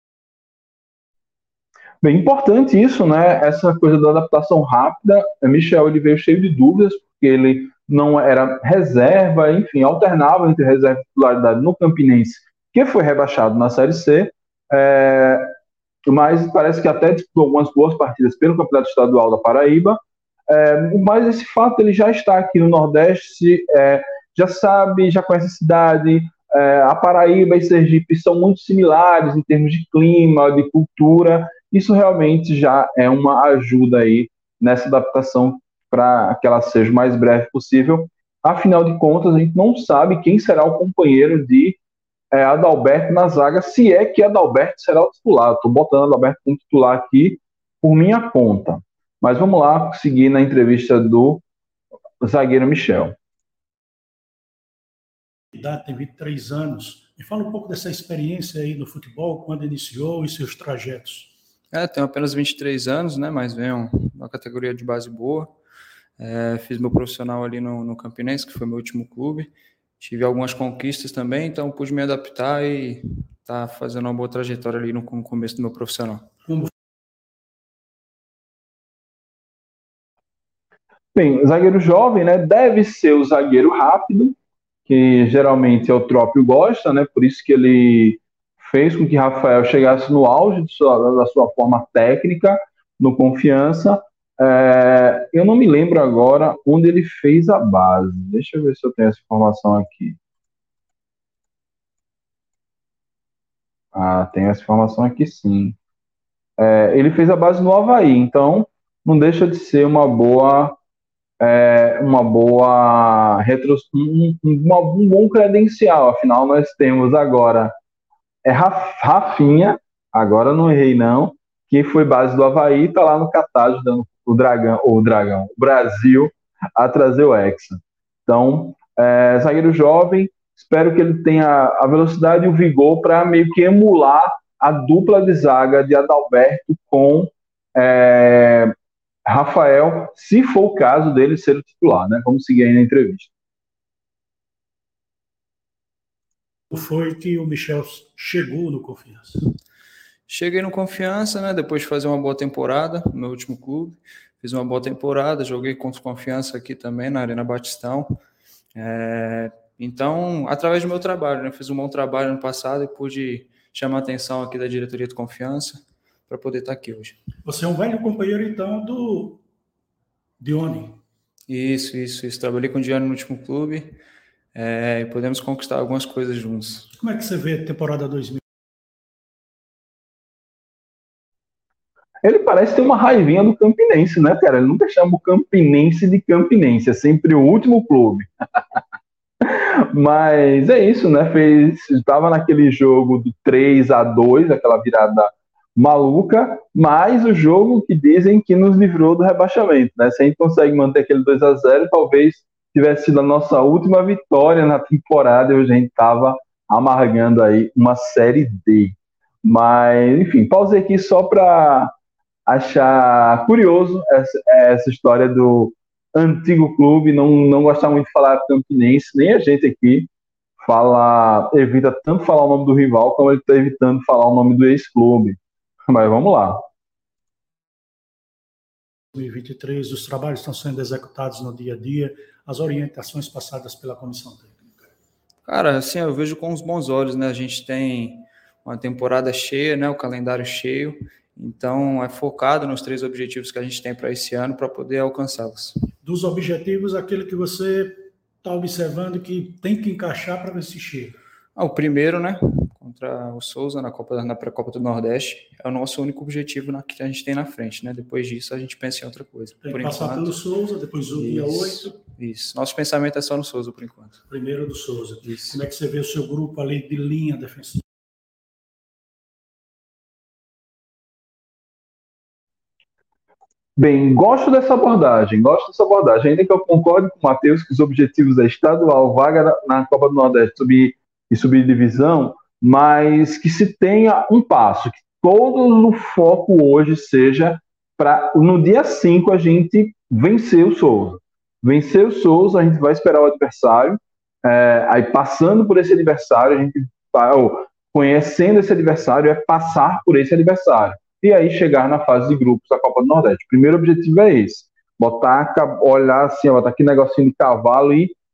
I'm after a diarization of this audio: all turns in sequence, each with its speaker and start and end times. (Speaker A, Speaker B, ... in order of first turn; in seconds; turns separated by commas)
Speaker A: 2.0-15.5, Speaker A: 16.1-41.8, Speaker A: 42.3-51.4, Speaker A: 52.2-53.1, Speaker B: 55.5-61.3, Speaker C: 61.7-65.5, Speaker C: 66.2-76.2, Speaker B: 76.5-76.7, Speaker A: 81.1-100.2, Speaker A: 103.9-105.8, Speaker A: 106.6-110.8, Speaker A: 111.4-117.7, Speaker A: 118.4-138.7, Speaker A: 139.2-143.3, Speaker B: 146.7-149.4, Speaker C: 150.3-158.2, Speaker C: 158.7-167.2, Speaker B: 167.4-169.4, Speaker B: 170.4-171.0, Speaker C: 171.5-173.9, Speaker C: 174.5-176.9, Speaker B: 177.0-178.4, Speaker A: 182.2-188.2, Speaker A: 189.4-211.9, Speaker A: 212.5-220.1, Speaker A: 220.6-226.6, Speaker B: 229.1-234.9, Speaker C: 235.4-245.7, Speaker B: 246.0-251.2, Speaker C: 251.6-260.3, Speaker B: 259.6-261.9, Speaker C: 261.1-264.2, Speaker B: 264.3-267.8, Speaker C: 265.2-265.6, Speaker A: 273.8-308.1